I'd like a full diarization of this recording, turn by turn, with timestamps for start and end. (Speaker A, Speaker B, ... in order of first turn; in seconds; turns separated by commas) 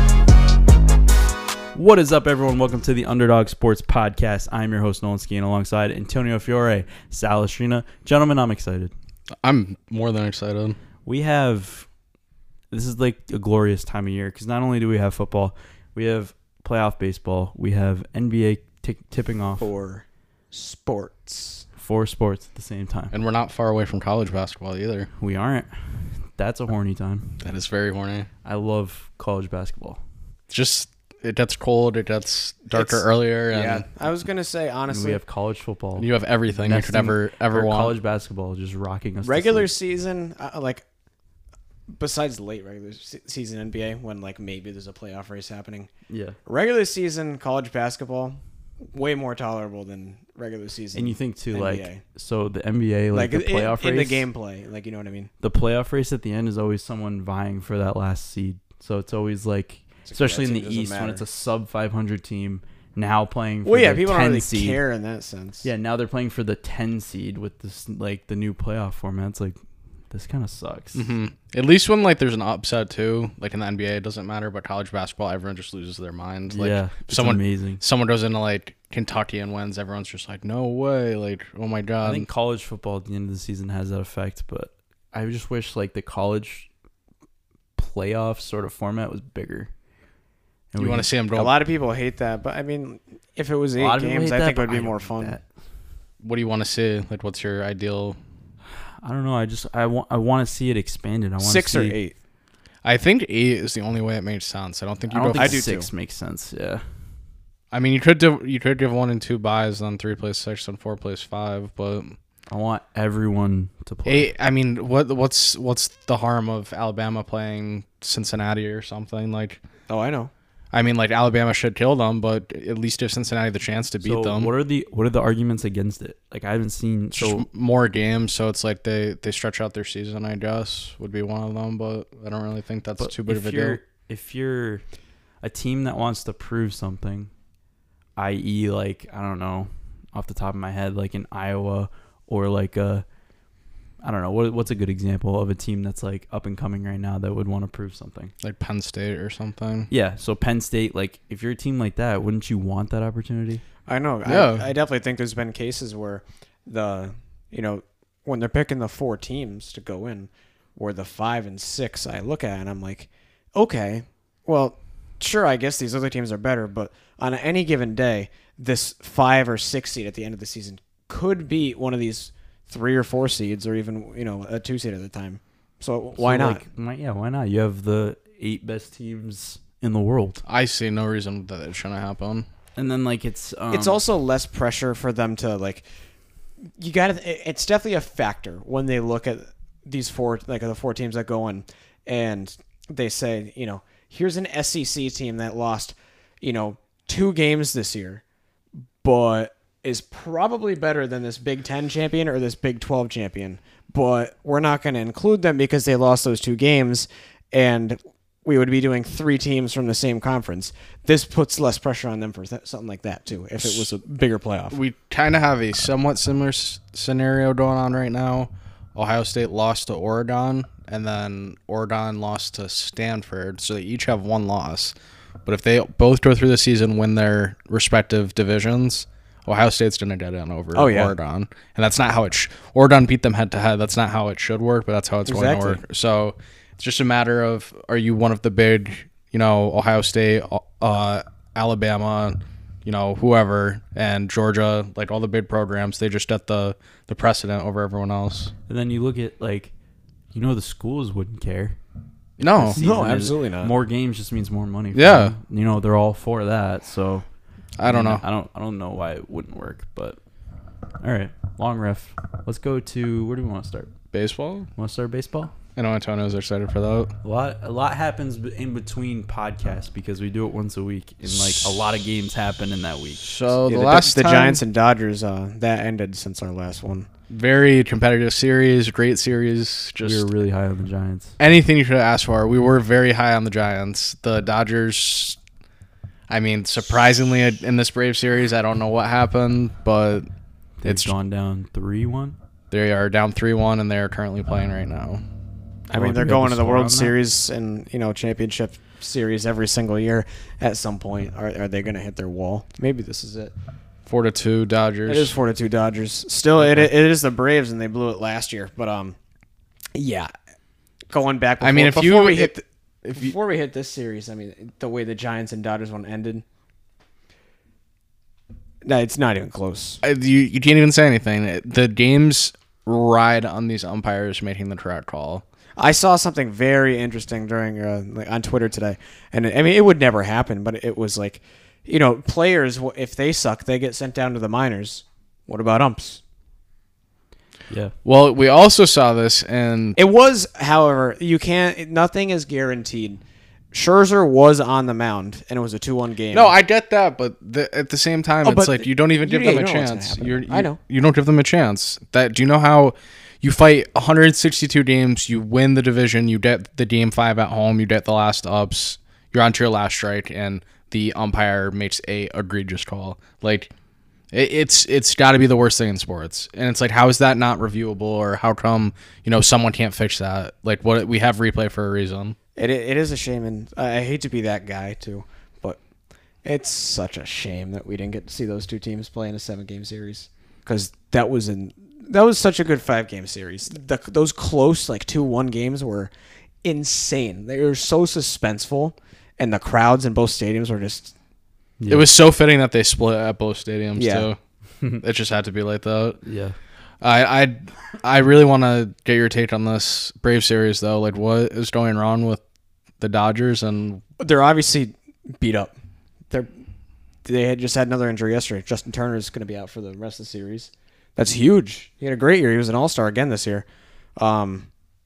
Speaker A: 1.7-8.9, Speaker B: 9.4-10.8, Speaker A: 11.1-11.9, Speaker A: 12.7-19.7, Speaker C: 19.6-21.6, Speaker A: 21.8-23.1, Speaker B: 23.1-25.1, Speaker A: 25.2-27.4, Speaker B: 27.4-28.3, Speaker A: 28.4-30.0, Speaker B: 30.5-33.9, Speaker C: 32.7-35.2, Speaker A: 34.9-39.7, Speaker B: 36.0-37.9, Speaker C: 39.2-40.8, Speaker C: 41.9-45.9, Speaker A: 46.1-46.4, Speaker C: 46.5-48.4, Speaker C: 48.9-52.0, Speaker A: 50.9-54.2, Speaker C: 53.1-55.3, Speaker A: 55.4-64.8, Speaker C: 60.0-61.2, Speaker C: 63.6-65.7, Speaker A: 65.6-69.6, Speaker A: 70.1-71.0, Speaker B: 70.9-82.2, Speaker A: 76.5-77.8, Speaker A: 82.0-86.7, Speaker A: 87.8-89.7, Speaker A: 90.7-91.1, Speaker B: 90.8-91.5, Speaker C: 91.3-95.3, Speaker A: 93.8-95.4, Speaker B: 96.2-98.2, Speaker A: 99.0-102.0, Speaker C: 101.4-102.1, Speaker B: 102.8-105.6, Speaker A: 105.1-106.8, Speaker C: 105.3-105.9, Speaker B: 107.7-112.2, Speaker A: 112.5-114.3, Speaker B: 114.0-119.6, Speaker C: 119.9-120.3, Speaker B: 120.7-124.5, Speaker A: 124.0-127.5, Speaker B: 127.1-133.8, Speaker A: 133.0-134.8, Speaker A: 135.4-137.3, Speaker A: 138.2-143.0, Speaker A: 144.0-148.3, Speaker B: 148.4-149.9, Speaker A: 149.9-153.6, Speaker C: 153.8-176.6, Speaker B: 154.2-154.7, Speaker A: 176.2-180.4, Speaker B: 180.4-182.5, Speaker A: 182.8-184.0, Speaker C: 183.7-185.8, Speaker C: 186.8-198.2, Speaker C: 199.0-214.8, Speaker B: 214.7-224.9, Speaker B: 225.4-248.5, Speaker C: 230.7-231.1, Speaker C: 235.2-235.8, Speaker A: 248.7-249.7, Speaker A: 250.3-251.8, Speaker B: 252.4-252.8, Speaker A: 252.4-257.2, Speaker C: 252.7-253.7, Speaker B: 254.9-255.3, Speaker B: 257.8-258.2, Speaker A: 257.8-260.2, Speaker A: 261.0-263.9, Speaker B: 264.1-264.7, Speaker A: 264.8-265.5, Speaker B: 265.8-267.1, Speaker A: 267.2-273.2, Speaker B: 271.3-271.8, Speaker B: 273.2-274.6, Speaker C: 273.6-277.1, Speaker B: 277.3-280.3, Speaker A: 280.0-281.4, Speaker B: 281.4-285.4, Speaker B: 286.3-290.3, Speaker A: 290.8-292.4, Speaker B: 290.8-291.1, Speaker B: 292.7-295.2, Speaker C: 295.9-303.5, Speaker A: 295.9-297.1, Speaker B: 304.1-305.3, Speaker C: 305.1-309.1, Speaker A: 306.6-306.9, Speaker C: 309.9-310.3, Speaker C: 311.1-312.6, Speaker B: 311.6-313.3, Speaker C: 313.1-316.4, Speaker C: 318.8-320.0, Speaker B: 320.0-325.4, Speaker C: 325.8-336.2, Speaker B: 338.0-340.0, Speaker C: 339.9-343.2, Speaker C: 343.7-346.5, Speaker B: 346.3-363.7, Speaker C: 348.4-350.8, Speaker B: 364.3-372.4, Speaker C: 372.6-375.8, Speaker C: 376.4-386.1, Speaker C: 386.6-391.1, Speaker A: 391.8-392.1, Speaker B: 391.9-394.4, Speaker C: 393.9-394.3, Speaker B: 395.0-396.2, Speaker A: 396.2-396.5, Speaker B: 397.0-402.4, Speaker B: 403.0-404.0, Speaker C: 404.2-405.7, Speaker C: 407.2-413.6, Speaker C: 414.2-414.7